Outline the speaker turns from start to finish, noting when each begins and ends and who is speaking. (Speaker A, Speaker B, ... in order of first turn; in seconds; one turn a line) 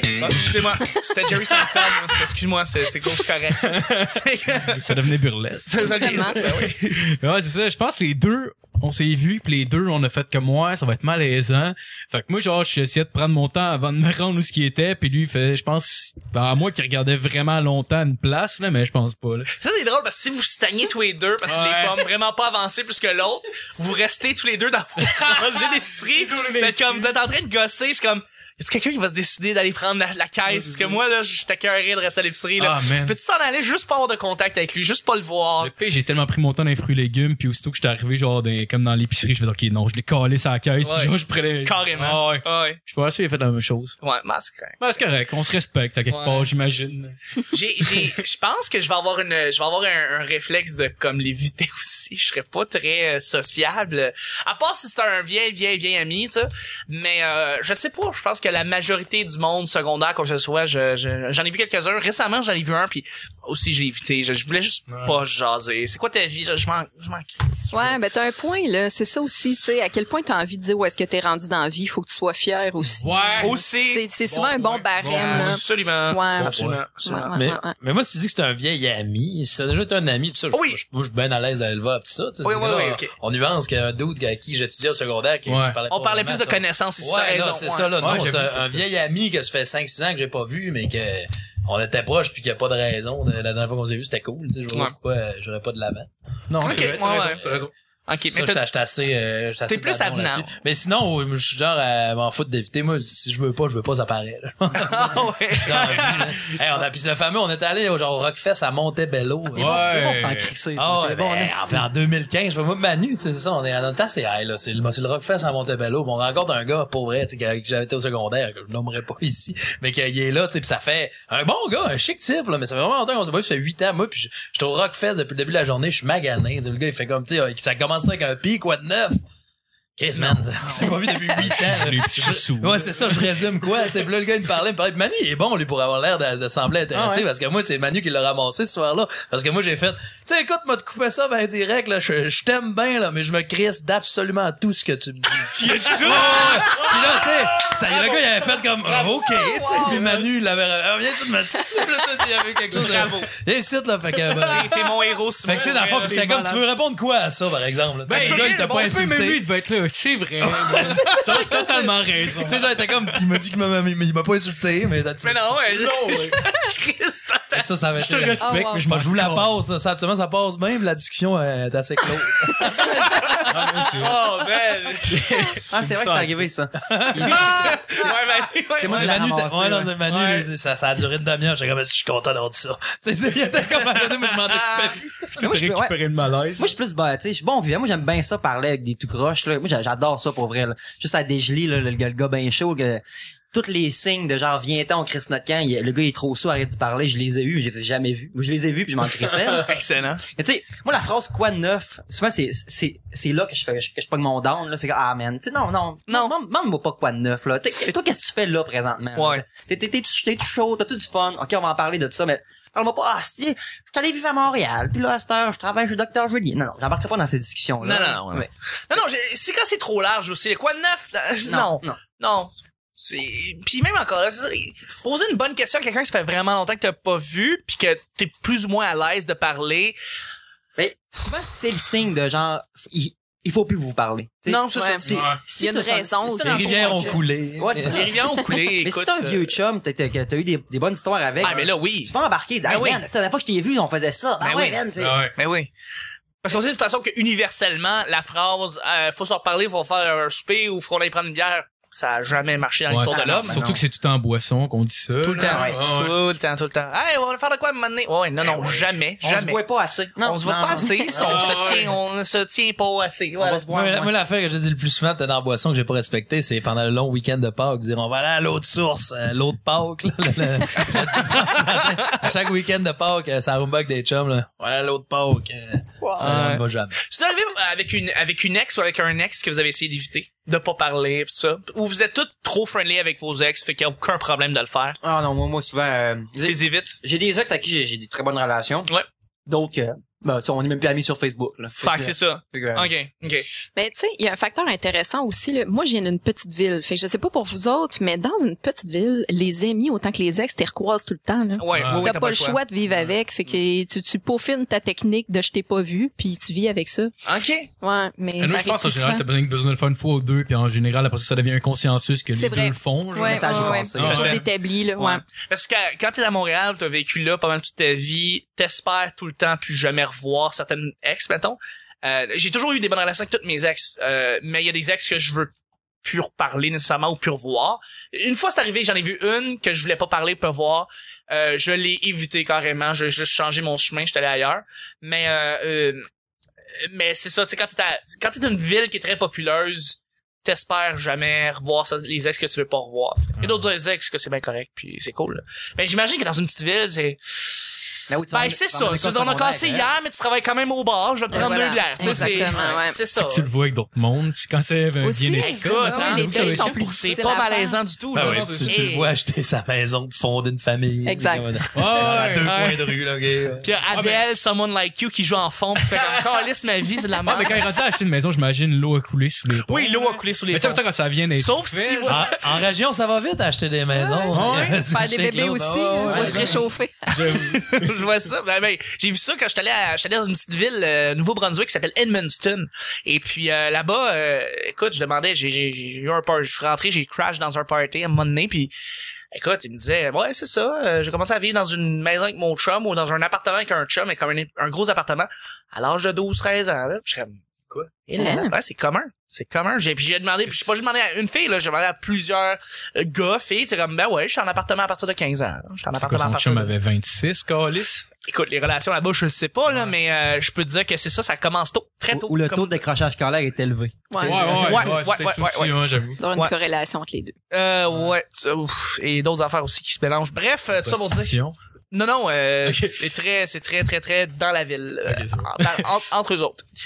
Speaker A: 0.2-5.0
Speaker B: 3.6-19.5
Speaker A: 5.7-7.0
Speaker C: 5.9-6.5
Speaker A: 19.6-35.7
Speaker B: 21.5-22.1
Speaker B: 25.1-25.4
Speaker B: 26.1-27.1
Speaker B: 30.5-31.0
Speaker B: 32.6-33.2
Speaker B: 35.6-44.0
Speaker A: 40.8-42.8
Speaker A: 44.0-44.8
Speaker B: 44.8-48.2
Speaker A: 46.1-46.5
Speaker A: 47.5-68.0
Speaker B: 64.9-65.2
Speaker C: 67.7-77.8
Speaker B: 73.0-73.6
Speaker A: 73.4-74.1
Speaker B: 74.2-75.6
Speaker A: 75.0-77.5
Speaker B: 76.3-76.8
Speaker D: 76.5-76.8
Speaker D: 77.3-96.1
Speaker A: 80.5-80.8
Speaker A: 82.4-83.1
Speaker B: 85.5-85.8
Speaker A: 85.9-88.1
Speaker B: 88.0-88.9
Speaker B: 96.5-97.7
Speaker A: 96.6-97.5
Speaker A: 98.1-98.6
Speaker D: 98.3-109.8
Speaker A: 99.7-100.6
Speaker A: 104.8-106.4
Speaker E: 104.9-105.2
Speaker B: 109.5-110.5
Speaker E: 109.5-111.9
Speaker D: 110.7-129.2
Speaker D: 130.0-154.6
Speaker E: 130.2-131.0
Speaker B: 131.4-133.4
Speaker E: 136.9-137.2
Speaker A: 145.6-147.2
Speaker B: 145.6-147.6
Speaker A: 147.9-148.2
Speaker A: 148.9-150.0
Speaker B: 149.7-150.2
Speaker B: 152.7-153.0
Speaker A: 152.7-153.3
Speaker B: 154.2-156.5
Speaker A: 154.4-156.6
Speaker D: 155.4-159.4
Speaker A: 158.1-158.9
Speaker B: 158.1-162.7
Speaker D: 160.4-165.7
Speaker A: 165.2-167.7
Speaker B: 165.7-166.4
Speaker D: 167.5-173.8
Speaker B: 168.0-169.6
Speaker C: 168.4-168.9
Speaker B: 173.5-174.2
Speaker A: 174.0-175.4
Speaker B: 175.2-176.5
Speaker E: 175.7-178.1
Speaker D: 176.8-177.7
Speaker A: 177.2-179.1
Speaker E: 178.8-179.9
Speaker D: 178.8-185.6
Speaker A: 180.1-180.5
Speaker A: 184.6-184.9
Speaker E: 185.4-186.0
Speaker B: 185.4-186.7
Speaker E: 186.6-199.7
Speaker A: 199.5-200.2
Speaker E: 200.3-219.0
Speaker A: 206.1-206.3
Speaker A: 209.2-209.4
Speaker A: 217.8-230.0
Speaker E: 221.5-222.0
Speaker E: 230.8-238.2
Speaker A: 234.5-235.3
Speaker C: 234.7-237.2
Speaker B: 235.1-235.4
Speaker D: 236.3-238.1
Speaker A: 237.8-239.6
Speaker E: 238.8-245.2
Speaker A: 241.4-243.1
Speaker A: 244.4-244.8
Speaker B: 245.0-245.3
Speaker A: 245.4-245.7
Speaker A: 246.4-253.6
Speaker B: 252.9-256.2
Speaker E: 253.1-253.8
Speaker A: 255.2-259.6
Speaker E: 255.4-255.9
Speaker B: 258.4-258.8
Speaker E: 259.2-261.3
Speaker A: 260.2-263.7
Speaker B: 261.1-261.9
Speaker E: 263.4-264.1
Speaker D: 263.7-277.0
Speaker A: 270.9-272.1
Speaker C: 276.0-276.4
Speaker A: 276.2-285.0
Speaker E: 285.0-288.9
Speaker A: 286.4-287.0
Speaker E: 289.5-292.9
Speaker A: 291.8-293.5
Speaker C: 293.8-307.1
Speaker A: 301.6-302.6
Speaker B: 301.7-302.1
Speaker A: 307.2-307.7
Speaker C: 307.8-309.2
Speaker B: 308.4-314.4
Speaker C: 312.3-315.2
Speaker E: 313.2-314.3
Speaker A: 314.0-325.5
Speaker A: 326.0-336.1
Speaker A: 336.8-347.2
Speaker E: 348.1-349.9
Speaker A: 348.3-353.5
Speaker C: 351.3-353.0
Speaker B: 352.0-357.2
Speaker C: 355.0-357.8
Speaker A: 355.4-359.2
Speaker D: 358.1-363.7
Speaker B: 358.2-358.8
Speaker C: 361.1-361.6
Speaker B: 361.7-362.8
Speaker A: 362.4-362.9
Speaker A: 363.6-367.7
Speaker B: 363.9-364.2
Speaker B: 365.8-366.4
Speaker B: 367.1-372.3
Speaker A: 369.6-370.8
Speaker A: 371.3-372.6
Speaker D: 372.1-376.7
Speaker C: 373.9-377.4
Speaker B: 374.3-374.9
Speaker B: 376.0-376.3
Speaker E: 376.1-376.6
Speaker B: 377.1-377.9
Speaker A: 377.4-388.7
Speaker A: 389.3-397.4
Speaker A: 397.9-406.7
Speaker C: 398.2-398.5
Speaker B: 405.9-408.1
Speaker A: 408.3-412.8
Speaker B: 409.7-409.9
Speaker E: 412.1-414.6
Speaker C: 414.1-414.6
Speaker B: 414.2-416.2
Speaker A: 414.2-415.8
Speaker C: 416.2-417.4
Speaker A: 417.5-421.4
Speaker B: 417.9-418.1
Speaker B: 420.8-421.6
Speaker A: 421.9-426.6
Speaker B: 422.7-423.0
Speaker B: 425.1-425.9